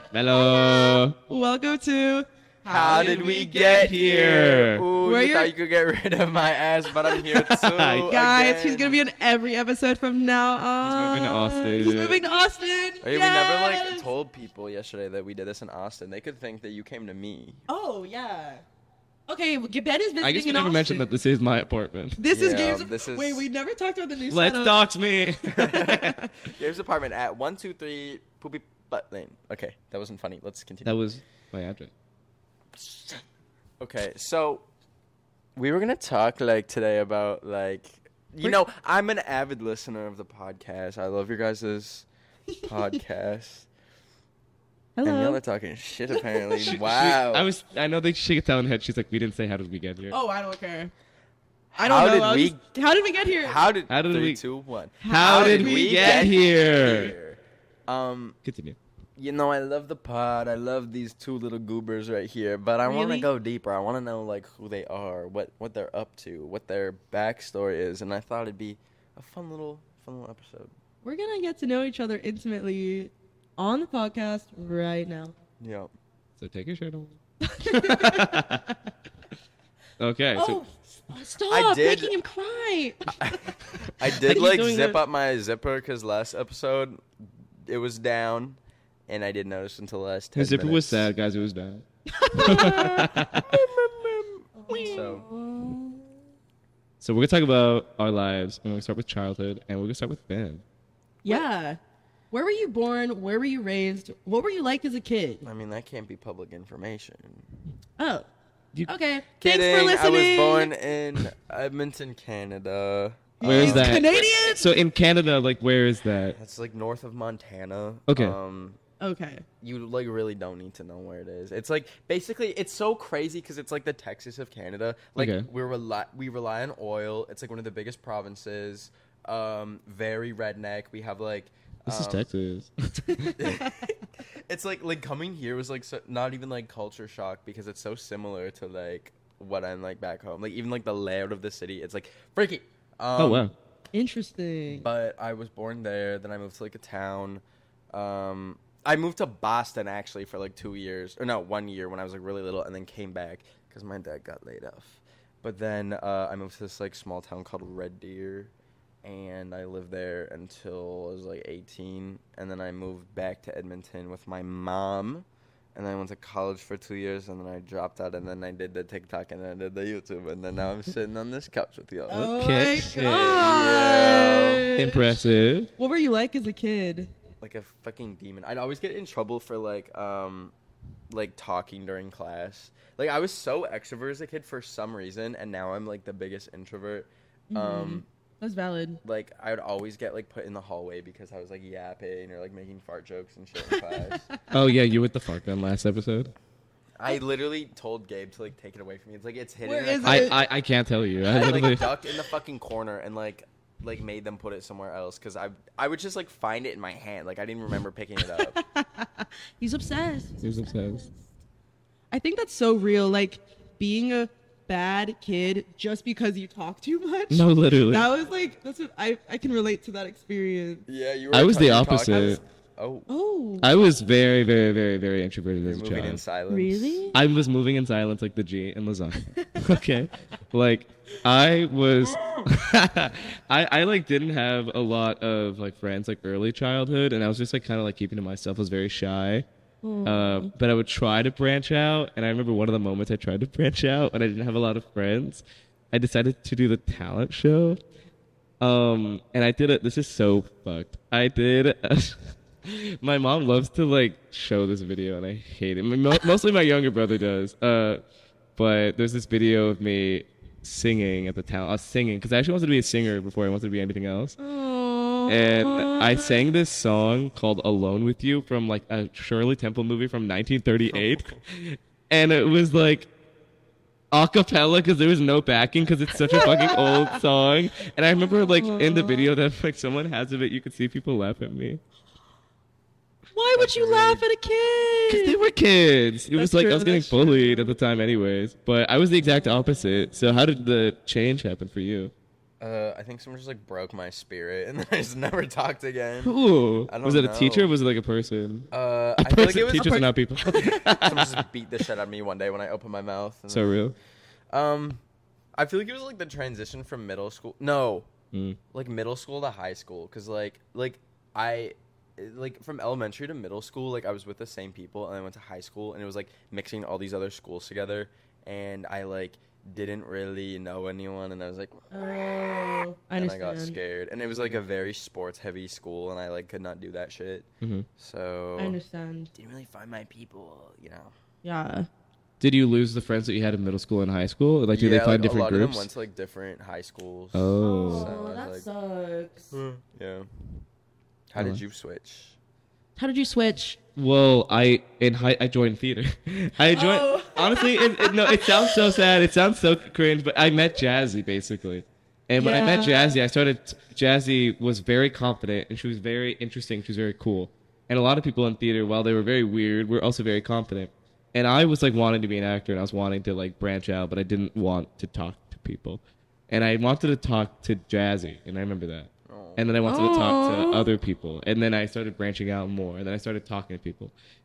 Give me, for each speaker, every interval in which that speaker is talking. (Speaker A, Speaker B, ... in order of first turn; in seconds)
Speaker A: 0.1-1.1, 3.5-4.8, 7.6-8.1, 10.8-12.2, 20.2-22.2, 24.3-26.3, 30.8-31.9, 46.7-50.2, 53.9-54.4, 55.1-57.1, 58.5-58.8, 76.4-78.7, 80.0-80.6, 90.3-93.5, 94.7-95.1, 97.0-100.6, 113.4-116.4, 118.1-118.3, 125.2-125.5, 131.9-133.3, 143.2-143.5, 172.1-173.5, 174.8-175.7, 194.5-196.3, 200.0-202.0, 210.4-211.0, 217.3-218.1, 221.3-222.4, 223.6-226.2, 227.1-239.4, 240.0-247.8, 248.6-258.0, 258.6-264.4, 265.2-273.1, 274.1-281.8, 285.1-292.1, 296.2-301.4, 303.5-303.9, 308.3-308.6, 332.4-335.9, 337.3-338.1, 343.9-374.1
Speaker B: 0.3-3.7, 5.0-5.5, 8.1-14.1, 17.7-18.6, 19.3-21.1, 22.2-24.8, 42.5-43.0, 45.0-45.4, 46.2-46.7, 50.1-50.9, 51.8-53.6, 55.0-56.3, 62.8-63.3, 71.0-75.3, 77.4-78.5, 80.3-83.4, 84.0-85.0, 92.1-93.4, 94.5-96.0, 101.2-101.8, 102.3-105.4, 108.0-108.3, 108.8-110.7, 113.4-114.8, 119.0-119.5, 133.0-133.9, 143.9-144.9, 172.1-175.1, 175.8-177.1, 187.5-189.0, 193.7-194.4, 199.6-200.4, 208.2-211.1, 212.1-220.8, 223.1-223.7, 226.5-227.2, 239.8-240.5, 264.4-266.4, 276.2-277.2, 278.3-279.3, 283.3-285.3, 286.3-287.8, 321.9-323.8, 328.6-329.3, 331.4-331.9, 337.6-339.5, 343.0-343.8, 346.7-349.1, 352.4-353.2, 369.9-370.9
Speaker C: 2.6-9.0, 13.0-17.6, 22.3-23.4, 25.4-31.1, 32.8-33.1, 33.8-34.7, 35.5-42.0, 42.7-43.7, 45.0-47.5, 51.7-52.6, 53.4-58.4, 59.2-70.7, 75.6-75.9, 81.5-82.1, 83.2-87.0, 87.6-91.1, 92.6-95.2, 105.4-107.5, 109.4-114.4, 116.3-118.8, 119.6-132.3, 133.4-143.5, 144.7-172.3, 173.2-174.7, 177.4-180.5, 181.1-188.1, 189.0-194.2, 197.0-200.4, 201.2-208.6, 220.9-223.1, 225.6-227.1, 270.8-271.4, 283.6-284.2, 292.6-297.7, 298.7-303.8, 304.5-305.0, 305.6-308.1, 308.7-321.9, 323.1-328.8, 329.3-331.1, 334.7-338.6, 339.5-340.3, 341.3-342.4, 369.3-369.7